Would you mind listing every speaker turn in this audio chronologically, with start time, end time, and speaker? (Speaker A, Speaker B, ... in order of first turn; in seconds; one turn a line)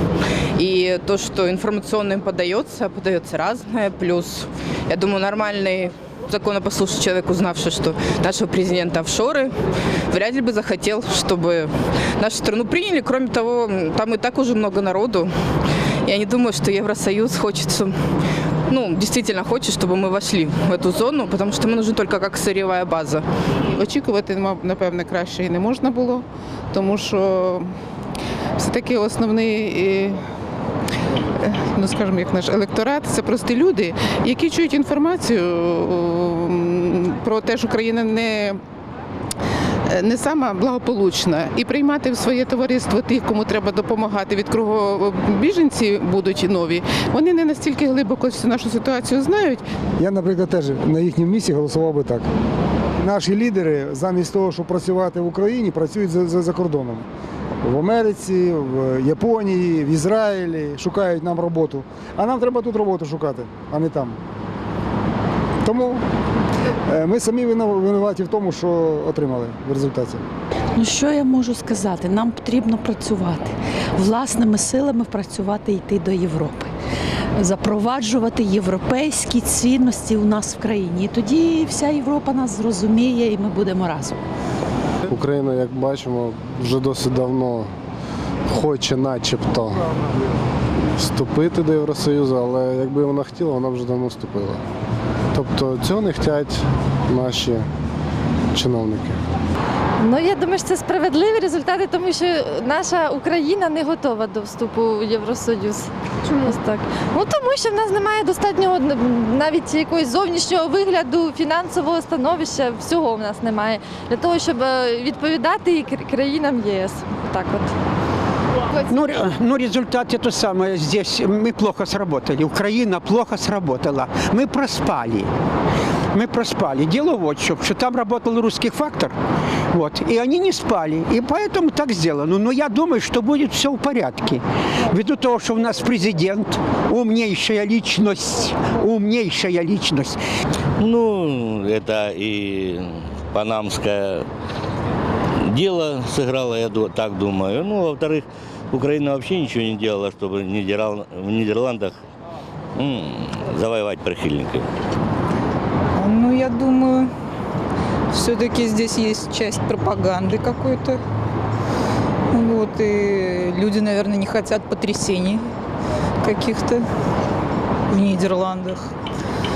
Speaker A: 0.6-9.5
Speaker A: 10.1-15.3
Speaker A: 16.1-17.9
Speaker A: 18.7-23.3
Speaker B: 23.8-27.7
Speaker B: 28.6-30.2
Speaker B: 31.4-38.6
Speaker B: 39.9-49.6
Speaker C: 50.0-52.2
Speaker C: 53.0-57.0
Speaker C: 57.6-64.2
Speaker C: 65.6-66.0
Speaker C: 66.9-70.2
Speaker D: 70.8-76.7
Speaker D: 77.4-84.2
Speaker E: 85.1-87.7
Speaker E: 88.5-89.8
Speaker E: 91.0-94.6
Speaker E: 95.3-97.7
Speaker E: 98.5-99.2
Speaker F: 100.0-117.7
Speaker G: 118.8-125.3
Speaker G: 126.1-129.2
Speaker G: 129.7-140.2
Speaker H: 140.8-144.2
Speaker H: 145.4-152.0
Speaker H: 152.8-154.7
Speaker I: 156.0-157.1
Speaker I: 158.1-161.0
Speaker I: 162.3-165.4
Speaker I: 166.2-166.8
Speaker I: 167.9-168.9